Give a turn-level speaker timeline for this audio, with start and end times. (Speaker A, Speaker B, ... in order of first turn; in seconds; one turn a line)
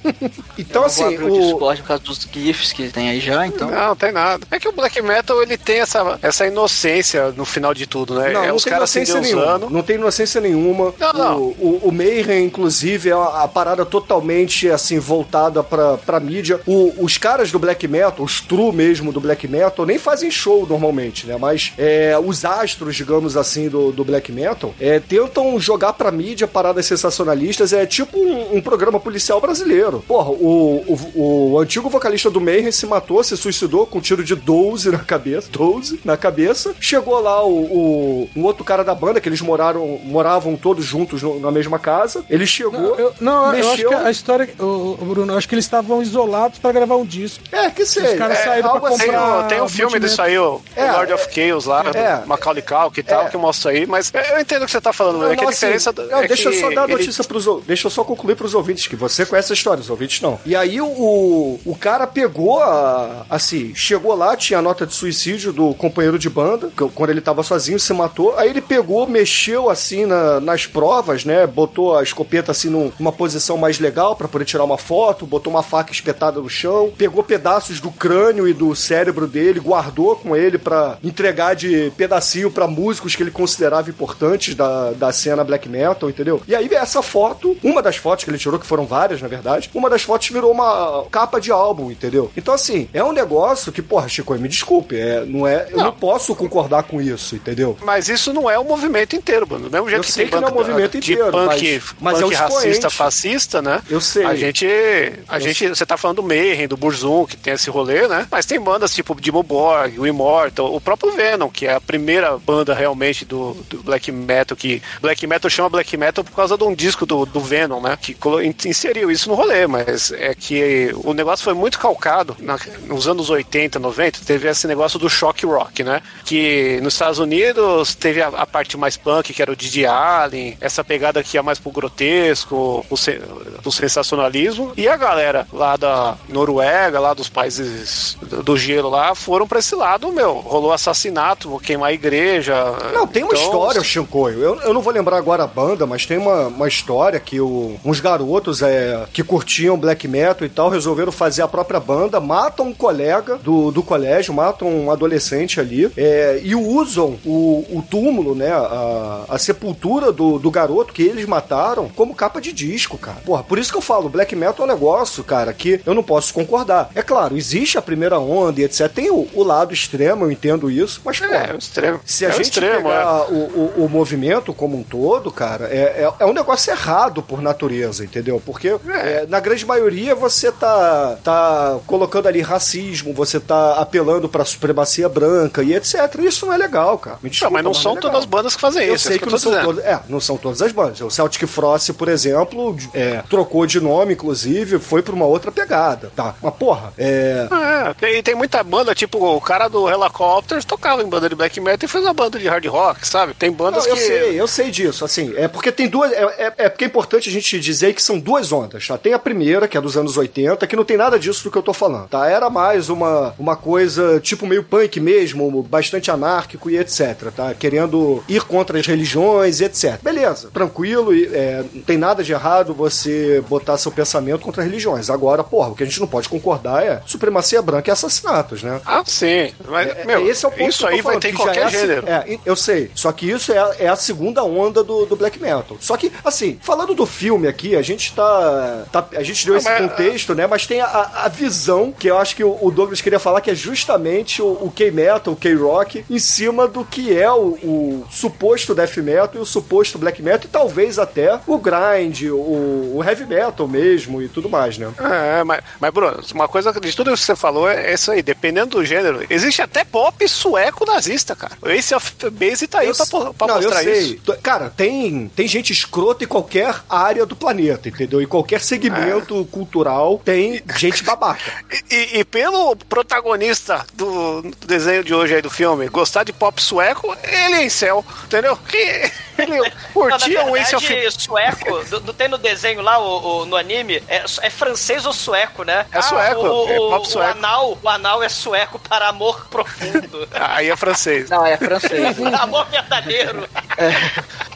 Speaker A: 0.6-1.6
Speaker B: 0.7-3.8
Speaker C: 3.6-9.7
Speaker A: 8.2-44.1
Speaker C: 11.0-11.4
Speaker D: 42.7-47.4
Speaker A: 47.5-49.7
Speaker D: 48.0-50.2
Speaker C: 48.3-57.1
Speaker A: 50.7-51.3
Speaker D: 51.8-52.0
Speaker A: 51.9-52.3
Speaker A: 53.0-53.3
Speaker A: 55.1-97.8
Speaker C: 97.8-143.9
Speaker A: 99.9-103.1
Speaker A: 103.9-104.5
Speaker A: 105.3-105.6
Speaker A: 142.9-171.5
Speaker C: 171.2-173.1
Speaker A: 172.1-188.3
Speaker C: 178.8-179.2
Speaker C: 187.4-189.7
Speaker A: 188.8-197.5
Speaker C: 197.5-204.3
Speaker A: 203.7-228.8
Speaker C: 228.9-232.1
Speaker A: 229.8-254.9
Speaker C: 239.5-240.1
Speaker C: 255.0-264.1
Speaker A: 262.8-271.5
Speaker C: 268.9-269.3
Speaker C: 271.7-281.0
Speaker E: 280.1-290.3
Speaker C: 285.9-287.4
Speaker C: 290.4-292.3
Speaker B: 291.3-292.3
Speaker E: 292.0-293.5
Speaker B: 293.8-294.1